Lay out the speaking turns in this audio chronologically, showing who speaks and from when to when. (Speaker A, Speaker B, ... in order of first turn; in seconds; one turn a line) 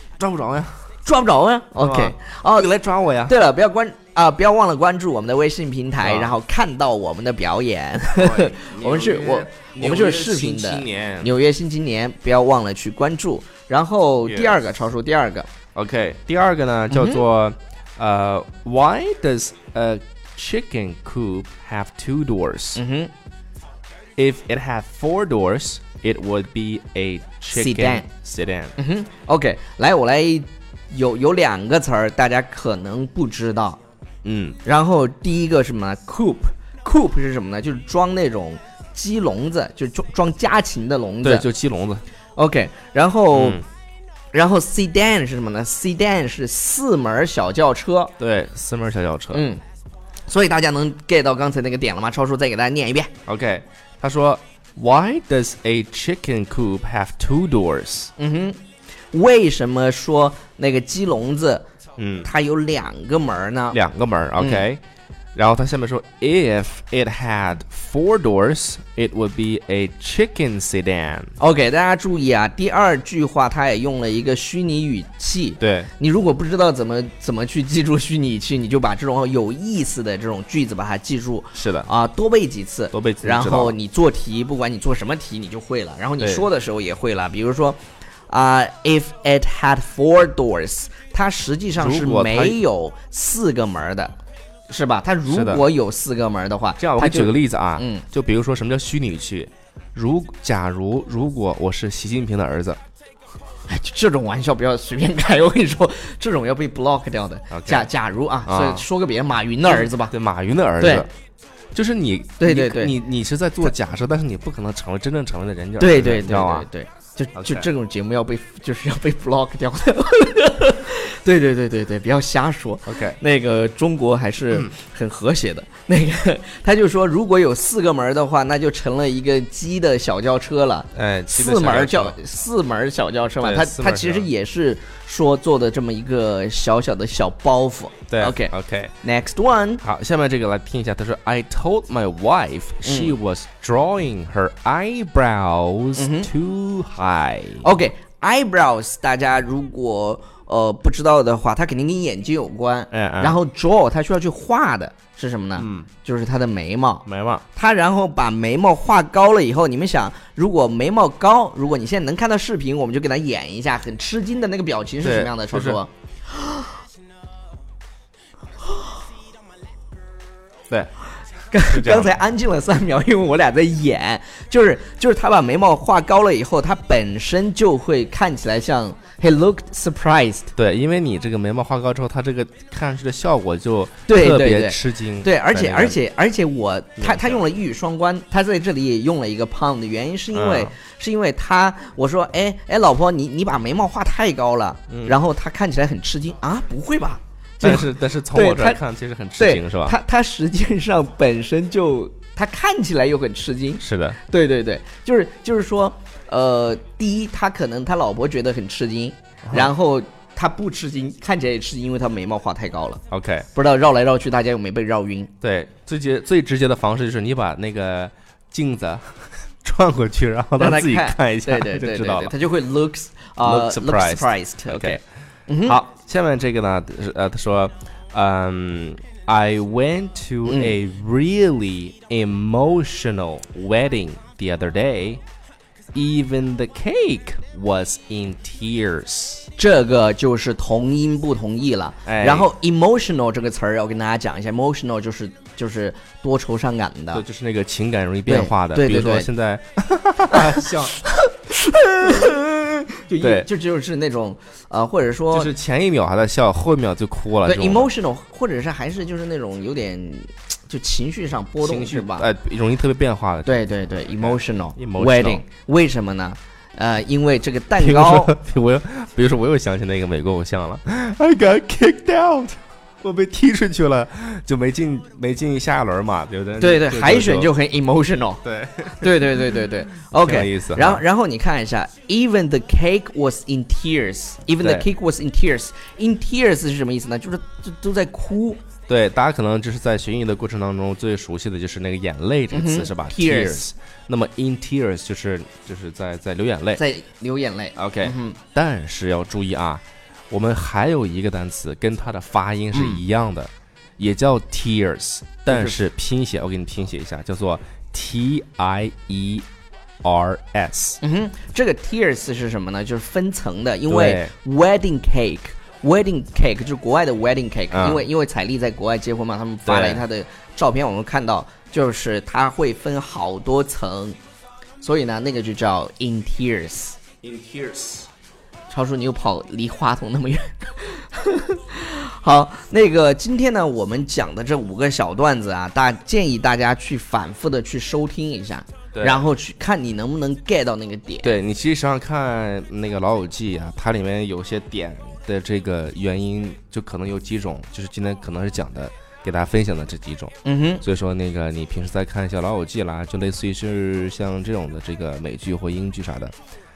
Speaker A: 0.2-0.8
Speaker B: 1.0-2.7
Speaker A: 1.8-3.4
Speaker B: 3.2-15.5
Speaker A: 6.0-6.3
Speaker A: 8.1-11.3
Speaker A: 14.2-14.6
Speaker A: 15.7-22.8
Speaker B: 16.9-17.2
Speaker B: 22.7-23.1
Speaker A: 24.2-28.7
Speaker B: 27.5-28.0
Speaker B: 28.8-33.8
Speaker A: 34.2-34.6
Speaker B: 34.6-41.5
Speaker A: 41.2-42.0
Speaker B: 42.4-43.6
Speaker A: 43.3-43.6
Speaker B: 44.3-48.1
Speaker A: 48.2-49.4
Speaker B: 49.3-49.6
Speaker B: 50.3-53.1
Speaker A: 53.2-58.1
Speaker B: 58.2-58.6
Speaker B: 59.1-61.6
Speaker A: 62.0-62.3
Speaker B: 62.2-63.8
Speaker A: 63.7-64.8
Speaker B: 64.4-64.6
Speaker A: 65.3-71.3
Speaker B: 71.4-94.2
Speaker A: 75.6-75.9
Speaker A: 81.5-81.9
Speaker A: 82.9-83.8
Speaker A: 86.2-86.5
Speaker A: 91.8-92.6
Speaker B: 94.7-98.0
Speaker A: 95.3-95.6
Speaker A: 96.8-102.8
Speaker B: 103.7-110.2
Speaker A: 107.5-107.9
Speaker A: 108.5-108.8
Speaker A: 109.7-111.1
Speaker B: 110.8-111.1
Speaker A: 111.7-116.7
Speaker B: 112.4-112.9
Speaker B: 115.8-138.5
Speaker A: 117.3-117.7
Speaker A: 122.9-123.2
Speaker A: 130.9-132.2
Speaker A: 133.4-134.3
Speaker A: 138.1-138.9
Speaker B: 139.0-139.8
Speaker A: 139.8-147.6
Speaker B: 142.8-143.2
Speaker B: 146.0-146.3
Speaker B: 147.6-166.6
Speaker A: 152.9-153.4
Speaker A: 155.6-155.9
Speaker A: 157.1-157.4
Speaker A: 165.0-165.8
Speaker B: 171.5-180.5
Speaker A: 171.6-172.1
Speaker A: 180.6-186.0
Speaker B: 184.1-198.8
Speaker A: 187.0-187.4
Speaker A: 190.3-190.7
Speaker A: 194.9-195.1
Speaker A: 197.6-199.9
Speaker B: 199.4-213.0
Speaker A: 203.8-204.2
Speaker A: 213.1-213.4
Speaker B: 213.5-215.3
Speaker A: 215.4-222.3
Speaker B: 220.6-225.8
Speaker A: 223.4-225.0
Speaker A: 225.7-235.2
Speaker B: 230.5-230.8
Speaker A: 235.9-239.5
Speaker B: 239.6-247.2
Speaker A: 242.1-242.5
Speaker A: 247.1-251.0
Speaker B: 248.3-249.3
Speaker B: 250.3-255.5
Speaker A: 252.0-252.3
Speaker A: 253.2-253.5
Speaker A: 255.3-257.9
Speaker B: 257.4-262.3
Speaker A: 261.6-265.4
Speaker B: 263.4-268.3
Speaker A: 267.8-277.5
Speaker B: 276.6-288.6
Speaker A: 278.4-279.5
Speaker A: 280.2-281.0
Speaker A: 284.6-284.9
Speaker A: 288.9-296.8
Speaker B: 292.5-293.7
Speaker B: 296.8-298.4
Speaker A: 297.8-309.4
Speaker B: 302.7-303.0
Speaker B: 305.5-305.8
Speaker A: 310.0-311.0
Speaker B: 311.0-324.2
Speaker A: 313.9-314.3
Speaker A: 317.7-318.1
Speaker A: 319.6-320.0
Speaker B: 324.8-327.0
Speaker A: 327.2-328.1
Speaker B: 328.7-341.4
Speaker A: 338.9-339.2
Speaker A: 341.2-356.3
Speaker B: 350.4-350.8